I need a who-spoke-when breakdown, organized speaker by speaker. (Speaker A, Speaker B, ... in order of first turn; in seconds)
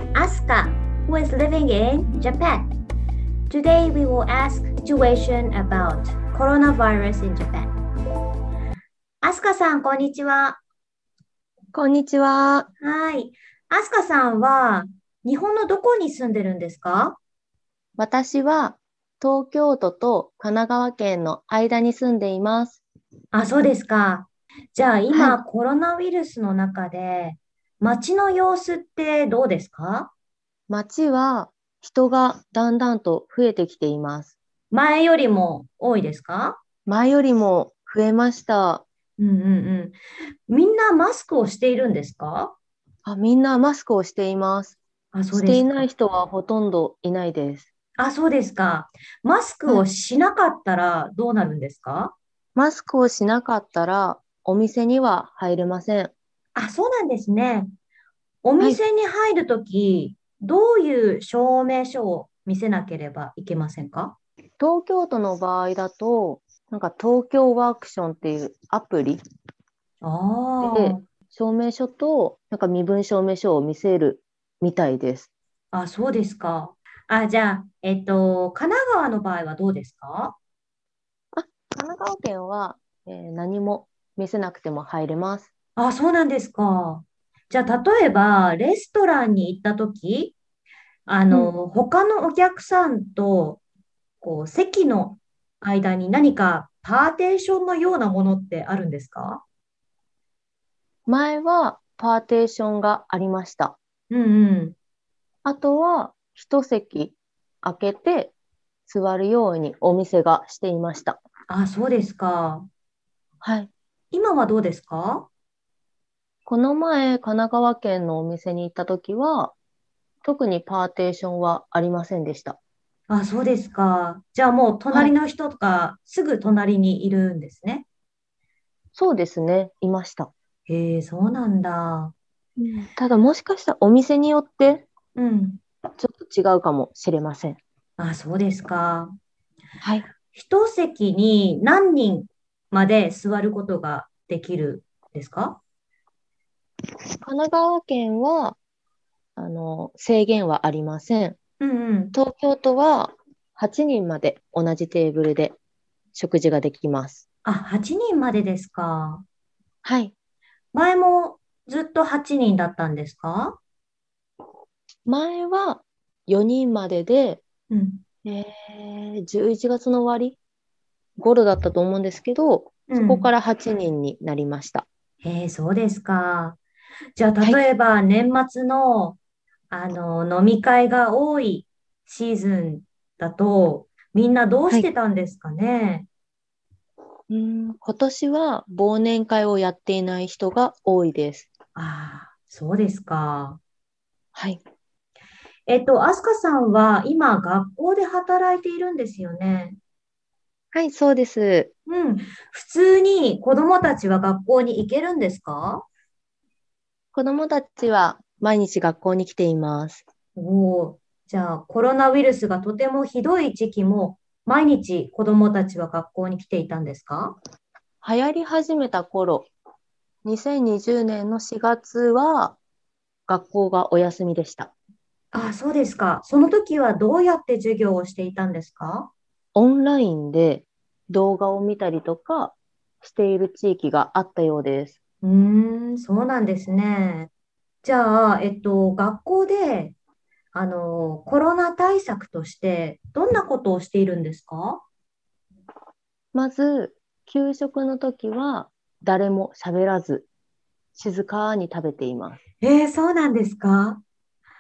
Speaker A: 0.1-2.7, 3.5-7.7, 9.2-10.6, 12.8-17.2, 23.3-30.1, 34.7-36.6, 39.2-40.0, 40.5-42.5, 45.1-45.9, 48.0-52.1, 56.5-57.7, 58.4-64.2, 70.0-71.0, 75.7-80.4, 85.8-90.3, 91.1-93.6, 94.2-99.4, 104.1-104.8, 111.5-112.7, 114.1-115.3, 123.1-127.8, 130.7-132.1, 135.2-135.6, 138.0-139.1, 140.3-145.6, 151.6-152.1, 157.4-159.2, 160.7-163.6, 167.7-168.0, 172.9-173.3, 175.2-176.6, 177.2-179.2, 179.7-186.1, 191.8-193.6, 195.7-199.8, 201.9-205.8, 210.3-217.3, 225.3-229.1, 235.2-237.3, 237.8-239.9, 240.5-244.8, 252.6-254.0
Speaker B: 11.7-12.7, 18.0-22.8, 25.1-25.4, 30.7-34.3, 36.9-38.8, 43.0-44.8, 45.3-47.7, 52.5-56.1, 64.6-69.2, 70.6-75.3, 81.3-85.5, 101.0-103.8, 105.4-108.3, 108.9-111.2, 113.4-113.7, 116.5-119.5, 120.2-122.6, 128.9-130.3, 132.6-134.8, 136.0-137.6, 139.8-140.1, 147.2-148.6, 149.3-151.4, 152.1-155.6, 156.1-157.2, 159.8-160.1, 165.1-167.4, 168.2-170.4, 171.2-174.9, 187.3-191.5, 194.3-194.6, 200.7-201.7, 207.1-210.0, 218.0-219.5, 220.2-222.6, 223.3-224.7, 229.5-235.0, 246.3-250.3, 250.9-252.4